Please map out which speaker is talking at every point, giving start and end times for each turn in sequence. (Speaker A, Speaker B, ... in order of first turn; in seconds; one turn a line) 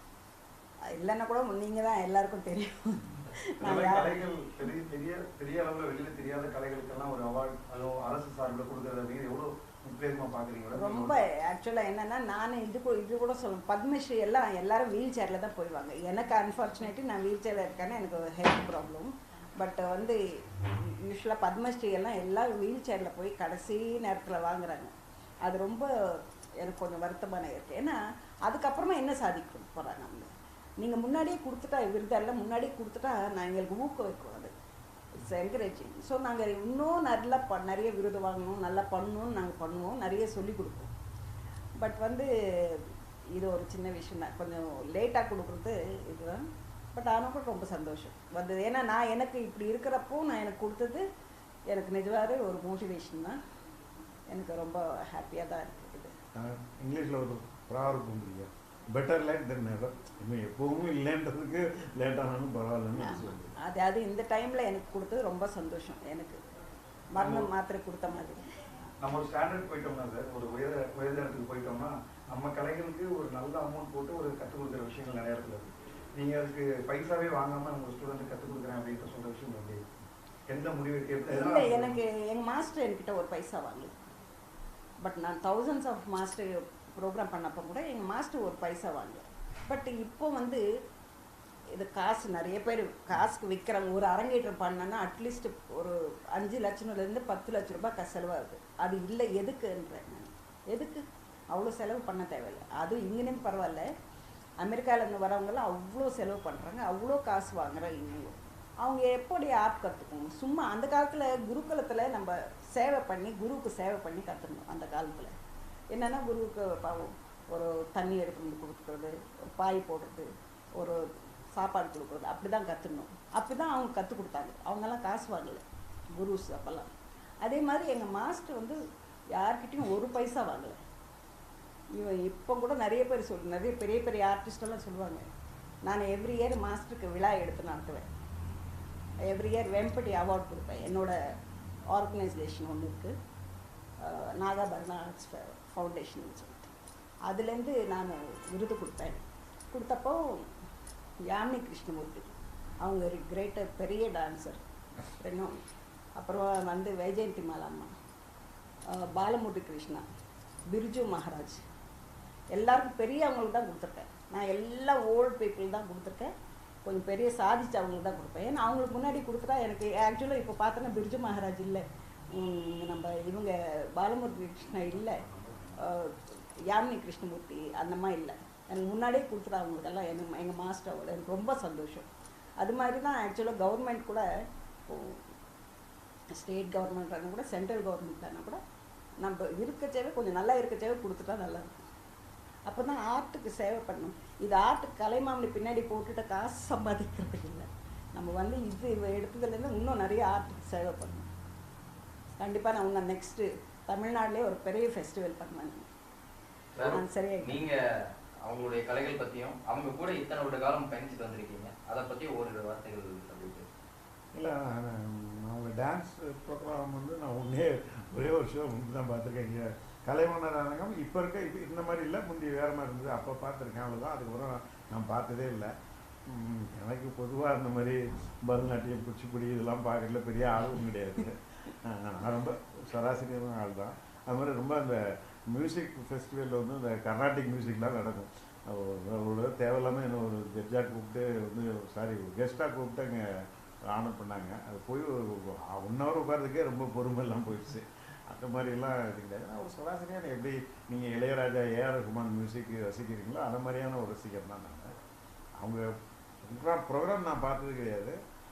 Speaker A: 0.9-4.2
Speaker B: 3.6-11.2
Speaker A: 10.7-30.3
Speaker A: 30.8-34.5
Speaker A: 35.1-40.9
Speaker A: 41.8-51.0
Speaker A: 51.7-53.4
Speaker A: 54.3-56.1
Speaker C: 56.4-63.6
Speaker A: 63.0-66.4
Speaker A: 67.1-68.5
Speaker B: 69.0-79.8
Speaker B: 80.5-82.0
Speaker A: 81.3-84.0
Speaker A: 85.0-90.6
Speaker A: 91.7-103.9
Speaker A: 104.6-115.3
Speaker A: 115.9-125.6
Speaker A: 126.2-126.9
Speaker A: 127.4-128.8
Speaker A: 129.3-130.8
Speaker A: 131.9-135.2
Speaker A: 135.9-138.1
Speaker A: 139.2-141.2
Speaker A: 141.9-143.2
Speaker A: 144.0-146.7
Speaker A: 147.3-150.5
Speaker A: 151.3-154.6
Speaker A: 155.2-155.6
Speaker A: 156.2-157.9
Speaker A: 158.9-160.1
Speaker A: 160.7-161.6
Speaker A: 162.5-166.3
Speaker A: 166.8-182.1
Speaker A: 182.6-184.2
Speaker A: 184.9-185.2
Speaker A: 186.3-188.6
Speaker A: 189.2-191.7
Speaker A: 192.7-201.3
Speaker A: 202.4-205.9
Speaker D: 206.7-207.8
Speaker A: 206.8-207.6
Speaker D: 208.4-213.7
Speaker C: 214.4-225.7
Speaker C: 226.3-254.9
Speaker C: 255.6-258.2